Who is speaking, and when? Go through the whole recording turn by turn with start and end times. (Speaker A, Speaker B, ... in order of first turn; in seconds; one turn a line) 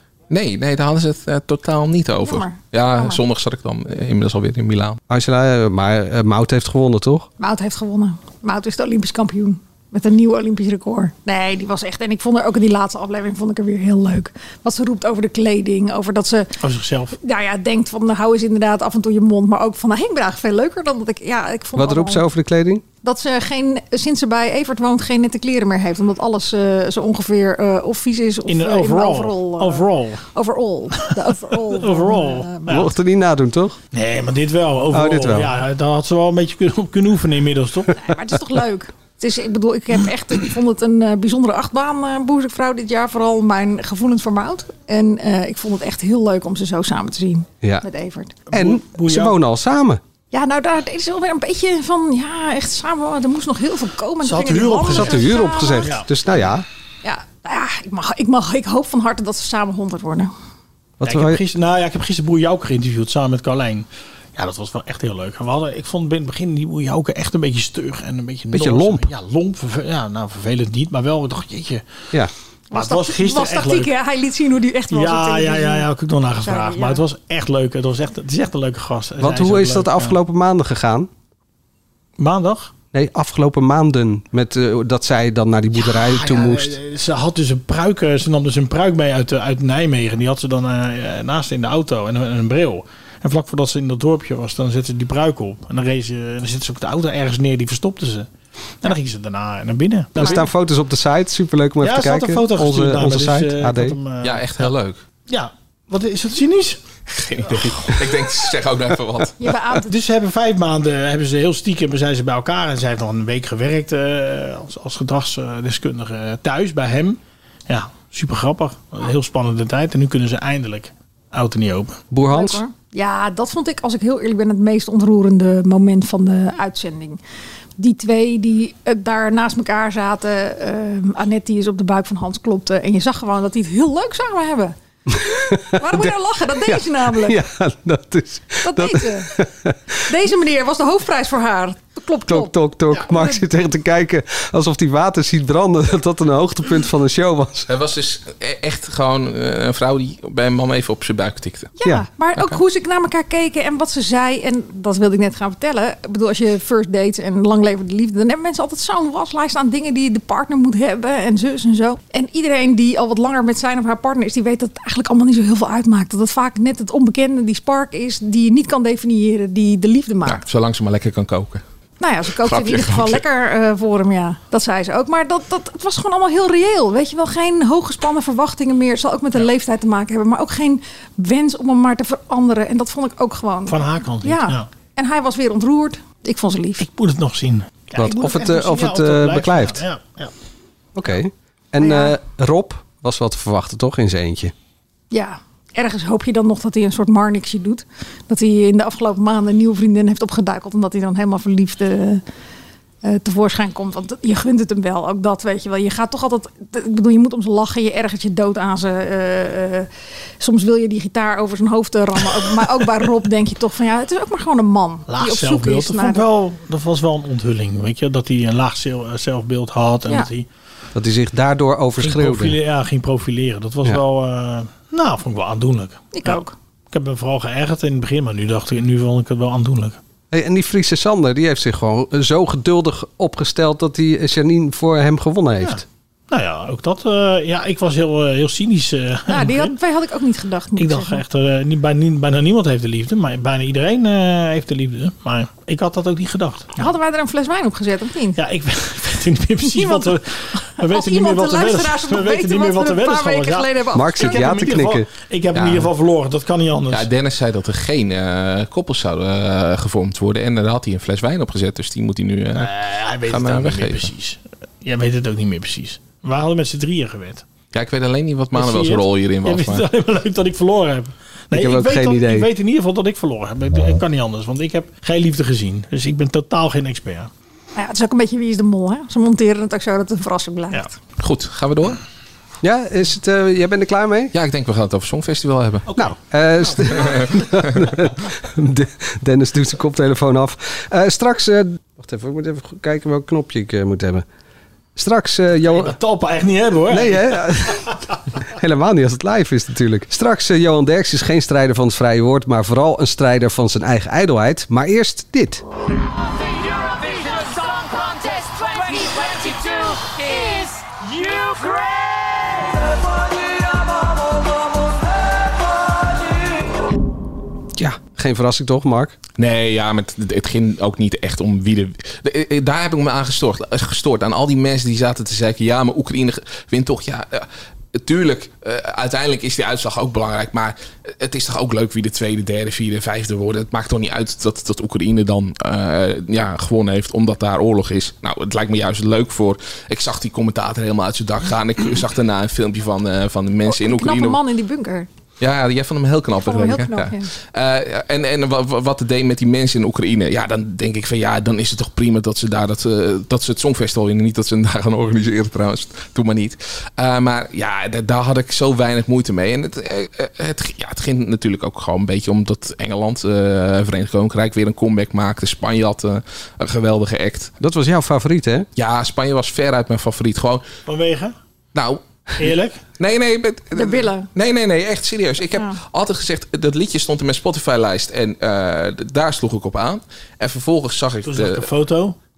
Speaker A: 0.3-5.0
Speaker B: 2.2-3.2
Speaker C: 5.1-7.3
Speaker B: 7.4-16.6
Speaker D: 16.6-17.1
Speaker B: 17.2-22.2
Speaker C: 21.8-22.8
Speaker B: 23.0-32.8
Speaker D: 28.4-30.2
Speaker D: 31.7-32.9
Speaker C: 32.7-33.8
Speaker D: 33.9-37.9
Speaker C: 34.9-35.5
Speaker B: 37.9-48.3
Speaker D: 48.5-49.4
Speaker C: 48.5-50.0
Speaker B: 50.3-55.9
Speaker D: 54.2-55.2
Speaker C: 54.8-56.6
Speaker D: 55.8-56.1
Speaker B: 57.0-60.3
Speaker C: 61.0-61.4
Speaker D: 61.0-72.0
Speaker C: 68.5-69.1
Speaker B: 72.7-75.9
Speaker D: 72.7-73.9
Speaker D: 74.9-80.2
Speaker B: 76.4-77.0
Speaker C: 79.2-81.1
Speaker D: 82.2-82.7
Speaker C: 82.9-86.8
Speaker D: 85.8-98.3
Speaker D: 98.8-100.4
Speaker C: 100.2-104.0
Speaker D: 101.8-104.7
Speaker A: 104.2-105.0
Speaker D: 105.3-106.8
Speaker A: 107.1-109.5
Speaker B: 109.4-109.9
Speaker D: 109.8-122.0
Speaker C: 122.1-122.6
Speaker B: 122.2-127.2
Speaker B: 127.8-137.4
Speaker C: 135.2-139.8
Speaker B: 138.6-139.4
Speaker B: 140.1-143.4
Speaker C: 142.3-147.7
Speaker A: 147.7-151.7
Speaker B: 151.8-170.4
Speaker A: 170.2-171.6
Speaker B: 172.0-186.9
Speaker A: 172.4-173.2
Speaker D: 183.7-184.7
Speaker D: 186.8-190.3
Speaker C: 187.9-189.8
Speaker B: 188.1-188.5
Speaker C: 190.9-194.5
Speaker B: 191.8-192.2
Speaker B: 195.1-202.2
Speaker B: 203.0-209.9
Speaker B: 210.4-216.2
Speaker D: 215.1-220.5
Speaker C: 220.9-222.6
Speaker D: 222.0-230.0
Speaker B: 226.1-226.5
Speaker C: 230.3-235.8
Speaker D: 235.6-239.7
Speaker B: 239.3-241.2
Speaker D: 240.8-246.9
Speaker B: 246.8-248.4
Speaker D: 248.3-257.1
Speaker B: 249.6-254.5
Speaker C: 253.9-255.1
Speaker A: 255.5-255.9
Speaker A: 256.9-262.7
Speaker D: 262.5-267.4
Speaker A: 263.2-264.1
Speaker A: 267.7-269.9
Speaker D: 268.5-277.3
Speaker C: 271.5-272.5
Speaker B: 277.8-280.9
Speaker A: 281.2-282.0
Speaker C: 282.6-284.3
Speaker A: 284.3-285.9
Speaker D: 285.9-287.4
Speaker C: 285.9-294.2
Speaker C: 294.9-295.9
Speaker D: 295.7-298.0
Speaker C: 296.9-297.9
Speaker C: 298.5-305.6
Speaker E: 306.1-312.8
Speaker C: 317.8-319.1
Speaker A: 319.4-344.4
Speaker B: 343.7-345.1
Speaker A: 345.4-367.5
Speaker B: 346.4-347.3
Speaker C: 367.6-368.7
Speaker A: 368.8-370.6
Speaker D: 370.9-371.3
Speaker A: 371.7-372.0
Speaker D: 372.4-372.8
Speaker A: 373.0-381.7
Speaker B: 373.7-374.3
Speaker D: 381.2-382.1